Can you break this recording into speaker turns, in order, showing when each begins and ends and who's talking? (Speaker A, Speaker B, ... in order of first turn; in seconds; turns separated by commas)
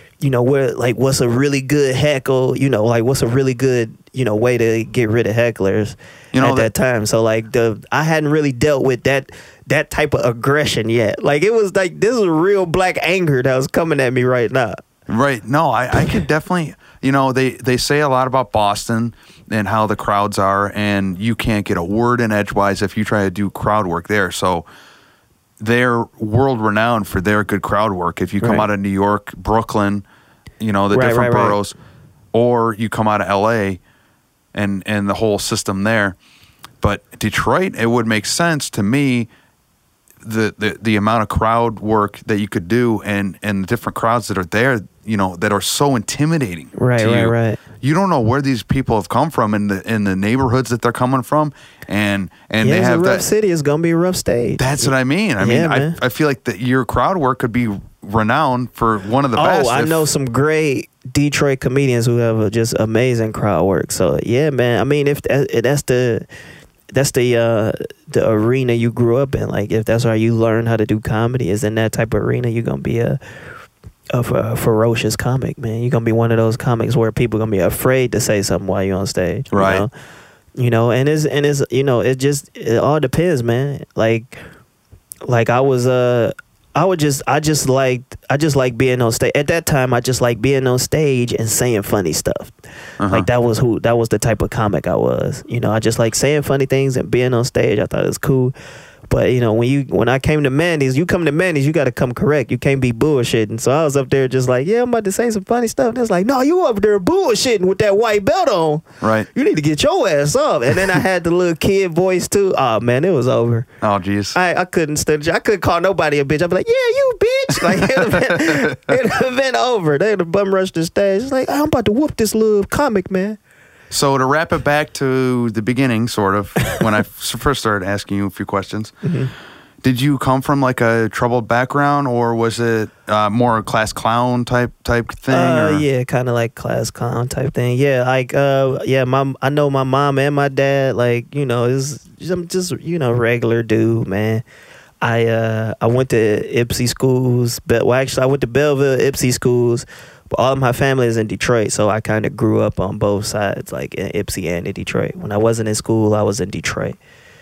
Speaker A: 0.2-14.8, Speaker B: 6.3-6.7, Speaker B: 15.1-24.7, Speaker B: 25.6-30.0, Speaker A: 28.4-28.7, Speaker B: 30.6-31.8, Speaker A: 30.9-31.6, Speaker B: 32.3-33.8, Speaker B: 34.5-36.2, Speaker B: 36.8-39.3, Speaker B: 40.2-53.2, Speaker A: 46.8-47.6, Speaker A: 52.6-56.0, Speaker B: 54.6-60.1, Speaker A: 59.4-66.2, Speaker A: 66.9-73.2, Speaker A: 74.1-79.9, Speaker B: 79.5-79.9, Speaker A: 80.6-84.4, Speaker A: 85.3-92.5, Speaker B: 93.0-93.3, Speaker A: 93.1-98.5, Speaker A: 99.1-113.7, Speaker B: 109.0-109.3, Speaker B: 113.8-114.4, Speaker A: 114.3-123.4, Speaker B: 117.6-119.0, Speaker B: 123.9-128.9, Speaker A: 129.0-129.3, Speaker B: 129.8-135.8, Speaker A: 135.3-144.4, Speaker A: 145.0-157.0